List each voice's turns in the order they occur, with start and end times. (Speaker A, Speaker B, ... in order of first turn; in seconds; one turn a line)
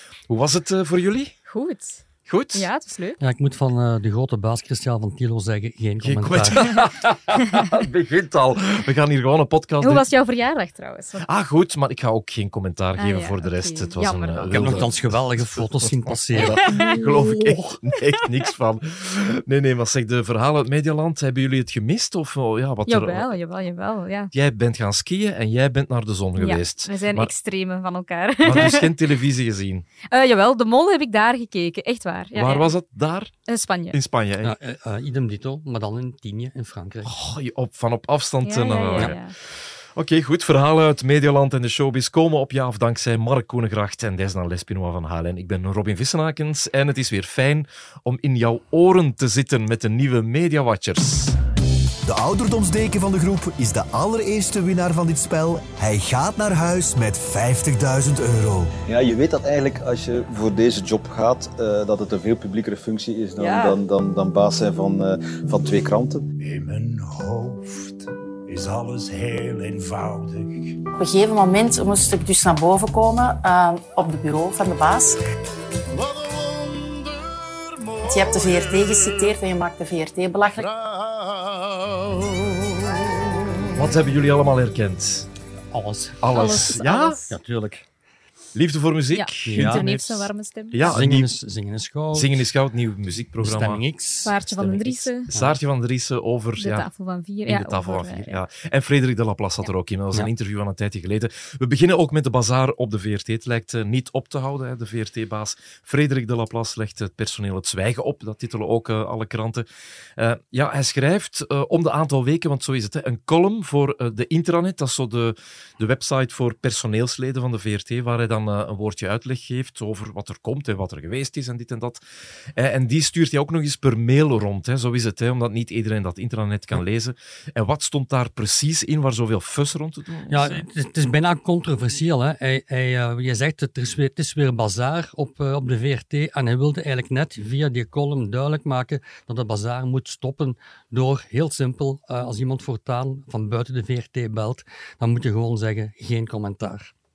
Speaker A: 0.3-1.3
Speaker B: 1.5-3.2
Speaker A: 2.3-2.7
Speaker C: 3.2-6.6
Speaker A: 6.0-10.1
Speaker B: 9.8-11.3
Speaker A: 11.2-15.6
Speaker B: 13.0-14.9
Speaker C: 14.5-17.6
Speaker A: 16.4-23.4
Speaker B: 16.5-17.0
Speaker B: 22.9-24.3
Speaker A: 24.3-27.3
Speaker B: 26.4-28.9
Speaker A: 28.4-29.9
Speaker B: 30.1-32.7
Speaker A: 32.4-33.3
Speaker B: 33.5-34.0
Speaker A: 33.9-34.5
Speaker C: 34.4-37.1
Speaker A: 37.0-51.4
Speaker B: 38.5-39.4
Speaker D: 52.0-58.7
Speaker E: 58.9-66.2
Speaker B: 63.4-63.8
Speaker F: 66.4-70.8
Speaker G: 71.0-75.2
Speaker G: 78.0-80.8
Speaker A: 83.7-85.3
Speaker C: 85.7-86.5
Speaker A: 86.2-87.2
Speaker B: 86.3-87.3
Speaker C: 87.3-87.9
Speaker A: 88.5-91.3
Speaker B: 89.1-91.0
Speaker C: 89.5-89.8
Speaker C: 90.8-92.5
Speaker A: 92.1-93.8
Speaker C: 93.4-94.3
Speaker B: 94.2-95.3
Speaker A: 94.5-96.9
Speaker B: 96.6-98.4
Speaker A: 97.5-109.7
Speaker A: 110.2-122.0
Speaker A: 122.6-130.6
Speaker C: 130.3-146.9